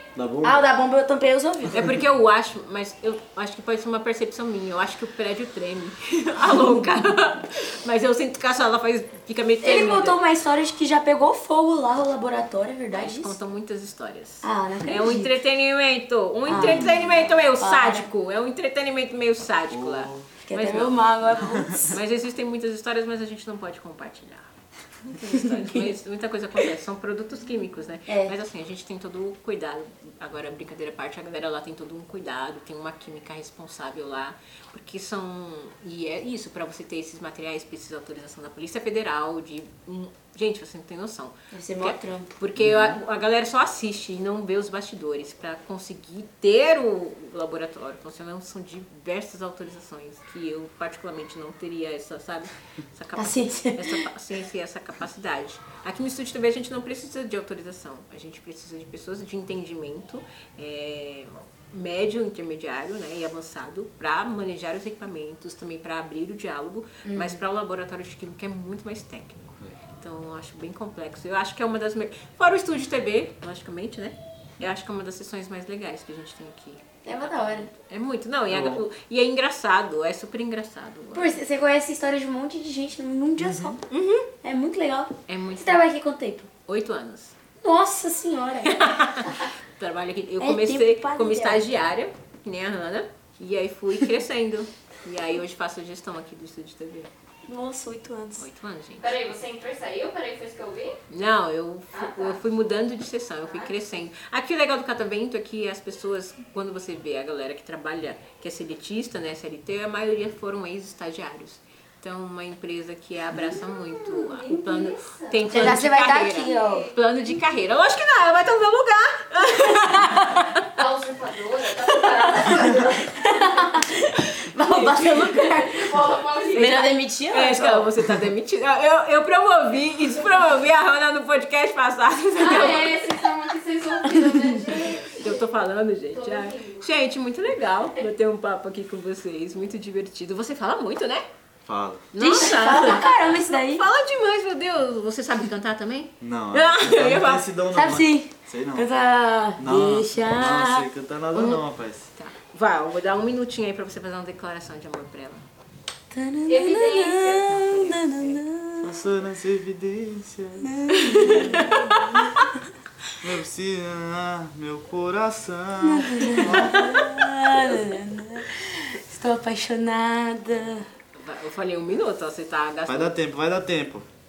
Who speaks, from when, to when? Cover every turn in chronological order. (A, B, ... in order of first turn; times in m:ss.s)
0:00.2-0:00.7 A
0:00.4-0:01.9 B
0:01.7-0:10.2 C
0:09.6-0:13.4 B
0:12.9-1:21.4 C
0:14.4-0:15.4 B
0:16.5-0:16.9 B
0:16.6-0:17.3 A
0:17.6-0:18.1 B
0:19.7-0:20.3 A
0:20.4-0:22.0 B
0:21.4-0:21.8 A
0:25.6-0:25.8 B
0:28.1-0:28.4 B
0:41.5-0:42.4 B
0:42.6-0:43.0 A
0:53.2-0:54.0 B
1:07.0-1:07.4 B
1:17.0-1:17.7 B
1:18.5-1:18.8 A
1:21.1-1:23.8 B
1:23.4-1:23.8 A
1:23.9-1:24.3 C
1:24.4-1:26.5 B
1:25.3-1:25.8 C
1:26.7-1:27.4 C
1:27.6-1:29.4 B
1:28.6-1:37.1 C
1:30.4-1:31.6 B
1:37.5-1:38.5 B
1:38.4-1:39.2 C
1:39.0-1:41.0 D
1:41.1-2:00.5 C
1:54.1-1:54.9 B
1:55.5-1:56.9 B
1:56.6-1:56.9 D
2:00.8-2:03.7 D
2:02.4-2:07.9 B
2:05.0-2:06.8 D
2:07.3-2:13.2 C
2:12.4-2:15.4 D
2:14.0-2:15.0 B
2:15.2-2:21.3 C
2:16.2-2:16.8 D
2:21.7-2:22.1 A
2:22.1-2:27.4 C
2:22.2-2:23.8 B
2:26.2-2:28.9 A
2:27.7-2:30.9 B
2:29.6-2:32.1 A
2:31.4-2:31.6 C
2:32.2-2:35.4 C
2:36.1-2:39.1 B
2:36.5-2:37.2 D
2:37.1-2:38.4 C
2:38.8-2:42.0 A
2:40.6-2:42.5 B
2:41.1-2:41.8 C
2:43.2-2:47.2 A
2:45.8-2:50.9 B
2:51.2-2:53.1 C
2:52.9-2:54.1 A